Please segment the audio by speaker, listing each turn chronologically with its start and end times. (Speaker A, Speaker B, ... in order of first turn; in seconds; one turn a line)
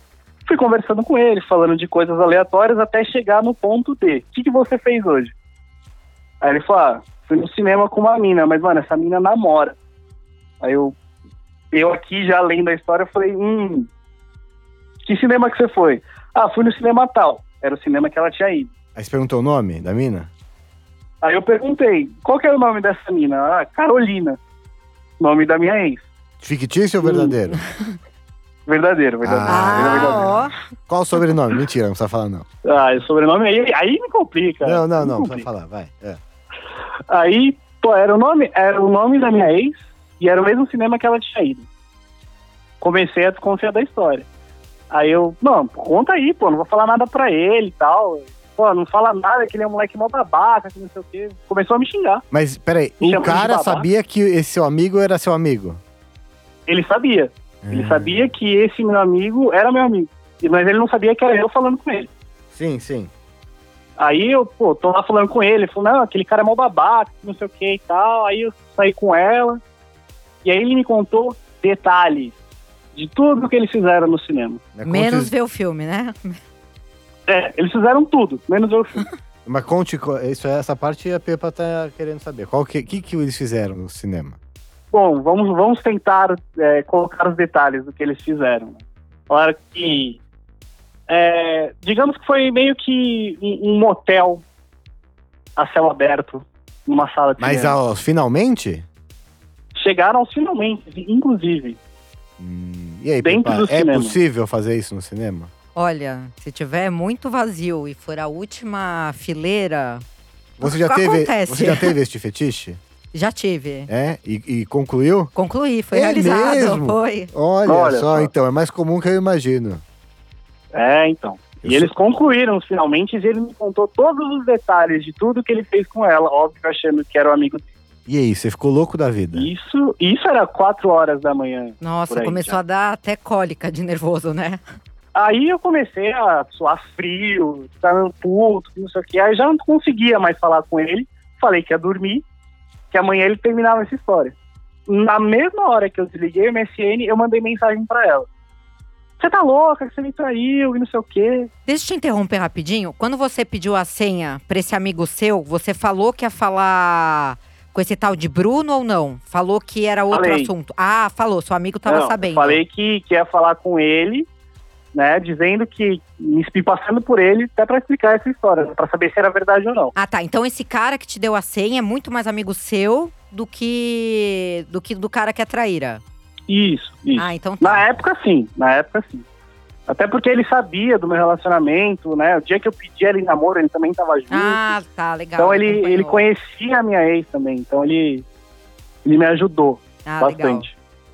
Speaker A: 0.5-5.3
Speaker A: 6.4-9.8
Speaker A: 10.6-11.0
Speaker A: 11.7-13.9
Speaker A: 15.1-18.7
Speaker B: 18.9-20.3
Speaker A: 21.2-24.4
Speaker A: 25.2-26.1
Speaker B: 26.4-27.6
Speaker A: 27.0-27.4
Speaker A: 28.7-30.4
Speaker B: 29.2-32.5
Speaker C: 29.5-30.6
Speaker A: 32.6-35.5
Speaker B: 34.6-36.2
Speaker A: 37.1-41.6
Speaker A: 42.8-44.3
Speaker A: 44.9-52.2
Speaker B: 52.3-55.8
Speaker A: 53.0-53.9
Speaker A: 56.7-62.1
Speaker B: 57.6-58.3
Speaker B: 62.5-63.1
Speaker A: 64.0-69.6
Speaker A: 70.4-72.4
Speaker A: 73.0-74.6
Speaker B: 74.8-75.3
Speaker C: 74.8-76.4
Speaker A: 77.3-79.1
Speaker B: 79.5-84.4
Speaker A: 84.9-90.2
Speaker A: 91.1-94.4
Speaker A: 95.6-97.8
Speaker B: 97.4-98.9
Speaker A: 99.8-101.8
Speaker B: 102.4-105.5
Speaker A: 103.2-104.2
Speaker C: 105.8-110.0
Speaker B: 110.6-112.8
Speaker C: 110.6-112.0
Speaker C: 113.1-113.9
Speaker B: 113.9-115.3
Speaker C: 115.3-117.3
Speaker B: 115.9-119.8
Speaker A: 117.7-118.3
Speaker A: 120.7-127.7
Speaker B: 121.6-121.9
Speaker B: 128.1-129.5
Speaker A: 129.3-132.6
Speaker C: 131.8-134.6
Speaker A: 135.2-142.2
Speaker A: 142.9-144.3
Speaker A: 144.9-148.3
Speaker A: 149.2-151.5
Speaker C: 151.7-162.6
Speaker A: 160.1-160.5
Speaker A: 161.9-164.3
Speaker A: 164.9-169.9
Speaker C: 169.9-176.0
Speaker A: 176.5-179.3
Speaker C: 177.2-177.9
Speaker A: 179.9-184.8
Speaker C: 184.3-186.2
Speaker A: 185.4-188.2
Speaker A: 189.1-190.8
Speaker C: 190.1-190.7